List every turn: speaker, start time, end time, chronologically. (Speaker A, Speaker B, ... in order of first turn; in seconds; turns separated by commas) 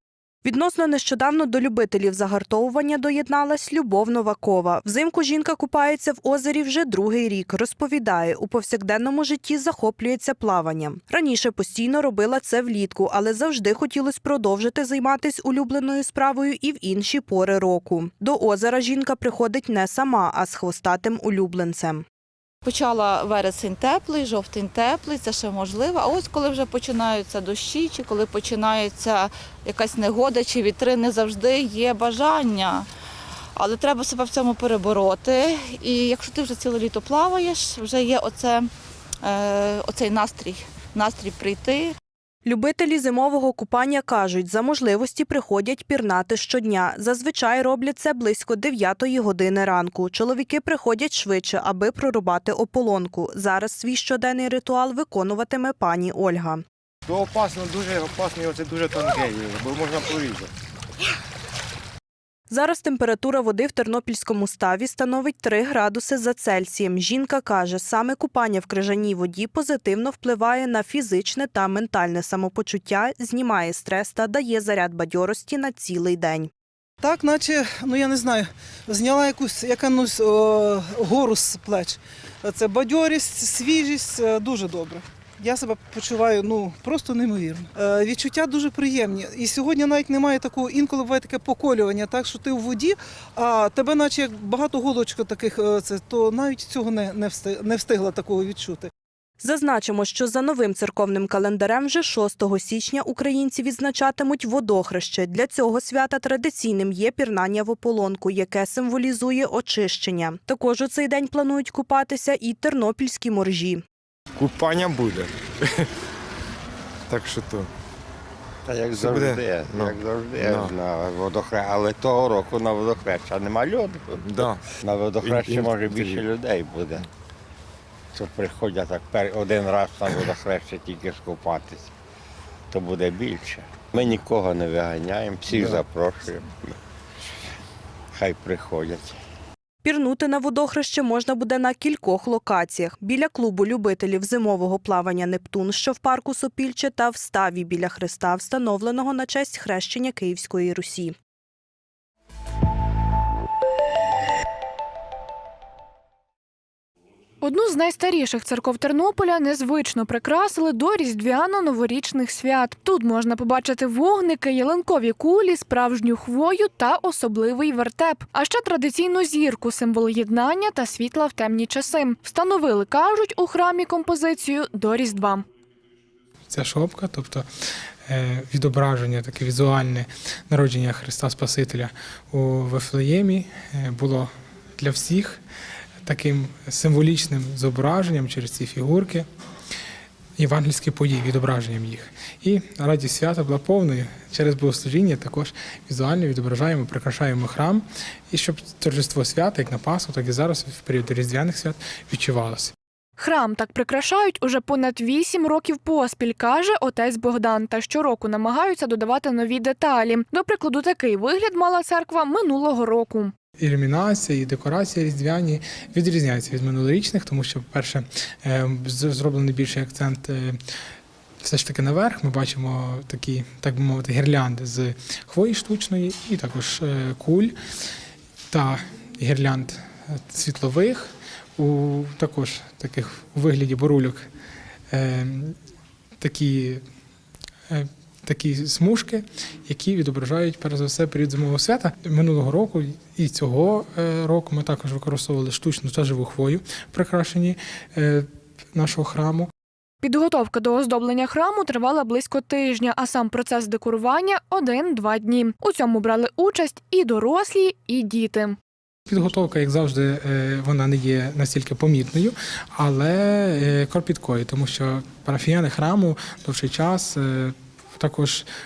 Speaker A: 0.4-22.0, Speaker B: 22.6-32.9, Speaker B: 33.6-38.7, Speaker B: 39.2-42.0, Speaker A: 42.5-56.6, Speaker C: 57.1-60.5, Speaker A: 62.5-76.5, Speaker D: 77.0-98.9, Speaker A: 99.4-113.8, Speaker C: 114.4-115.9, Speaker C: 117.1-117.7, Speaker E: 118.7-127.1, Speaker C: 119.0-120.7, Speaker C: 124.2-124.6, Speaker C: 125.2-126.2, Speaker E: 128.1-131.9, Speaker E: 132.7-136.8, Speaker C: 135.5-135.8, Speaker E: 138.1-139.2, Speaker A: 139.8-151.2, Speaker F: 157.4-175.5, Speaker G: 176.5-177.5, Speaker G: 178.1-185.4, Speaker G: 186.0-189.3, Speaker G: 190.4-202.7, Speaker F: 203.2-213.3, Speaker G: 213.6-220.6, Speaker G: 221.4-227.6, Speaker G: 228.5-234.3, Speaker G: 234.9-235.6, Speaker G: 236.2-236.8, Speaker G: 237.7-249.5, Speaker F: 250.0-258.6, Speaker G: 259.1-268.5